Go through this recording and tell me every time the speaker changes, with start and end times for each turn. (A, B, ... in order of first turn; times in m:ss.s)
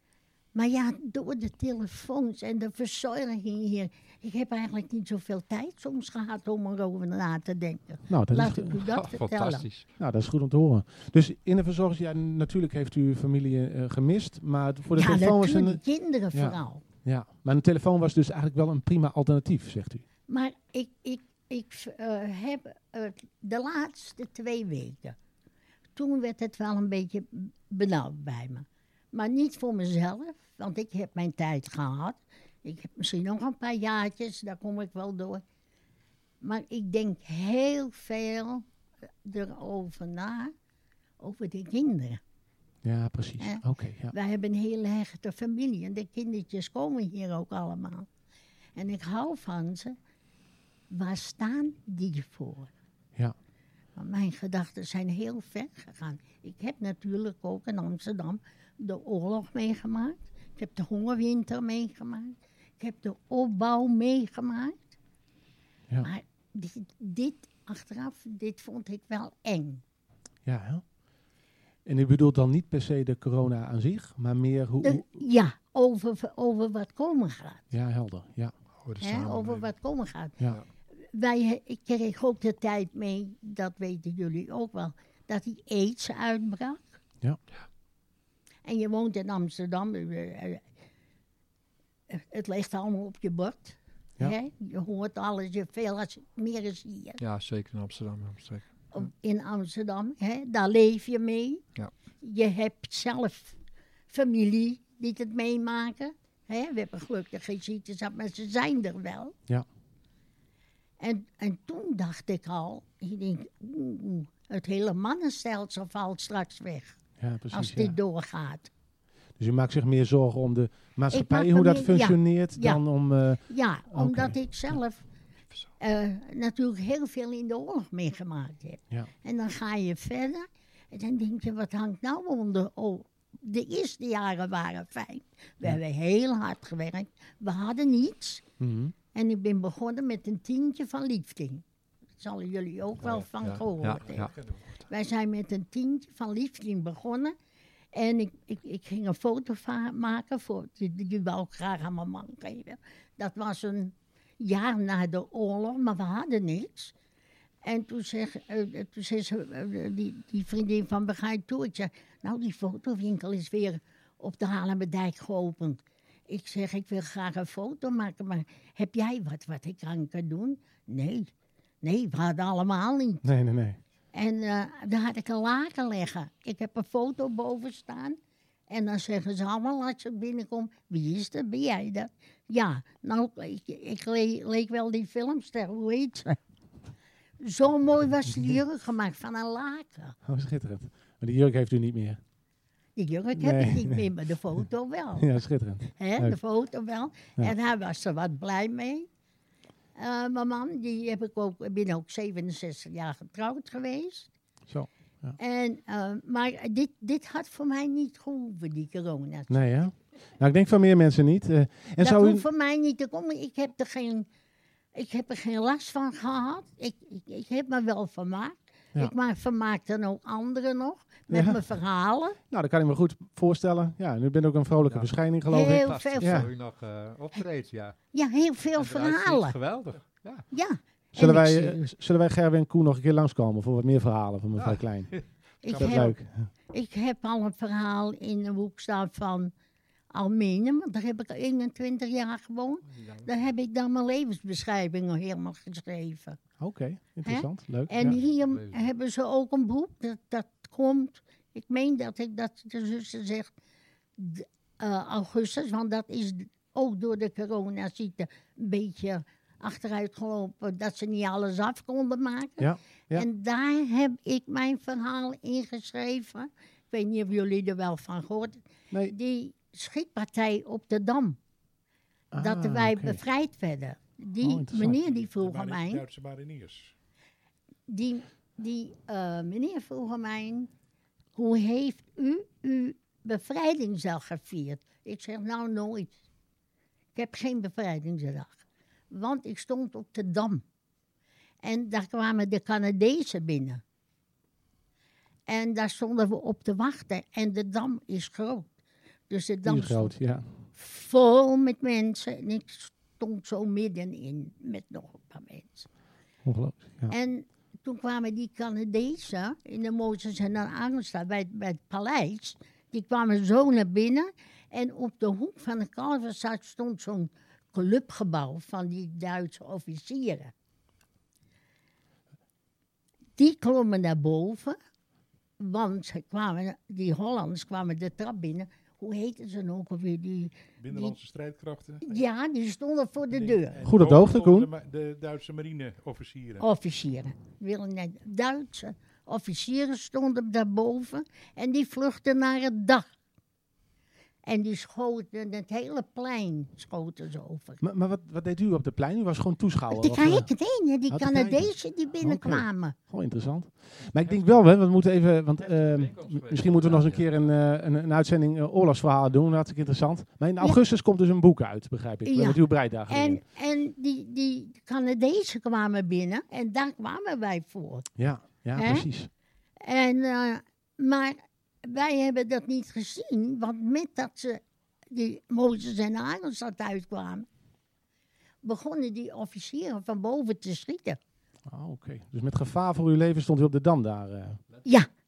0:00.5-0:09.7 A
0:08.1-0:08.8 B
0:08.9-0:09.9 C
0:10.0-0:15.8 B
0:14.9-0:16.8 A
0:16.3-0:20.0 B
0:20.3-0:25.2 A
0:26.0-0:35.4 A
0:36.4-0:38.6 A
0:39.2-0:40.5 A
0:41.2-0:42.2 A
0:42.8-0:44.1 B
0:43.4-0:48.1 A
0:48.8-0:50.0 A
0:50.9-0:52.7 A
0:54.0-1:05.0 A
1:06.0-1:09.8 A
1:10.4-1:10.8 B
1:11.8-1:15.1 B
1:14.8-1:17.6 A
1:17.7-1:18.5 B
1:18.8-1:19.7 C
1:19.0-1:20.4 A
1:21.1-1:26.9 A
1:28.6-1:30.6 A
1:32.1-1:37.2 A
1:37.2-1:38.6 C
1:38.9-1:41.6 A
1:42.2-1:43.6 A
1:44.1-1:49.3 A
1:51.0-1:57.0 A
1:57.2-1:57.9 B
1:57.5-1:58.7 A
1:59.4-2:04.4 B
2:01.1-2:02.8 A
2:03.4-2:05.0 A
2:05.8-2:18.4 A
2:18.6-2:18.9 B
2:19.1-2:21.6 A
2:22.2-2:27.3 A
2:23.0-2:24.6 C
2:27.9-2:36.9 A
2:37.6-2:51.3 A
2:51.8-2:53.3 A
2:53.2-2:53.8 B
2:54.1-2:58.2 A
2:58.7-3:06.4 A
3:07.4-3:10.2 A
3:10.2-3:12.2 B
3:13.0-3:15.3 A
3:13.4-3:14.0 B
3:15.2-3:16.4 B
3:16.0-3:19.1 A
3:20.0-3:24.3 A
3:24.7-3:25.4 B
3:25.4-3:29.6 A
3:29.5-3:32.4 B
3:32.0-3:34.3 A
3:34.9-3:42.4 A
3:41.3-3:41.6 B
3:42.5-3:46.5 B
3:44.8-3:48.0 C
3:45.5-3:46.4 A
3:48.1-3:49.6 A
3:48.7-3:50.4 C
3:50.5-3:51.9 A
3:51.1-3:55.1 B
3:54.6-3:56.1 C
3:55.6-3:56.2 A
3:55.7-3:56.5 B
3:56.7-3:59.5 A
4:00.1-4:06.4 A
4:02.9-4:03.3 C
4:06.6-4:08.2 B
4:07.2-4:13.5 A
4:08.3-4:08.8 C
4:14.2-4:31.4 A
4:22.6-4:23.2 B
4:32.3-4:33.2 B
4:32.4-4:36.0 A
4:34.4-4:35.0 B
4:35.3-4:36.9 D
4:37.9-4:40.7 A
4:41.3-4:46.1 A
4:47.1-4:50.6 A
4:51.6-4:53.8 A
4:55.5-4:58.6 A
4:59.3-5:00.1 A
4:59.6-5:00.5 B
5:00.8-5:05.9 A
5:06.4-5:07.1 B
5:07.1-5:20.5 A
5:23.4-5:24.8 A
5:25.6-5:31.2 A
5:30.8-5:32.2 D
5:32.0-5:33.9 A
5:33.3-5:36.7 D
5:33.8-5:34.7 B
5:36.6-5:43.0 A
5:44.4-5:47.8 A
5:47.8-5:50.5 B
5:49.9-5:53.0 A
5:51.1-6:03.4 B
5:54.1-5:54.7 C
5:55.6-5:57.4 C
6:02.2-6:08.1 A
6:08.2-6:09.3 B
6:08.7-6:09.1 A
6:09.8-6:17.4 A
6:18.6-6:21.2 A
6:21.7-6:24.6 B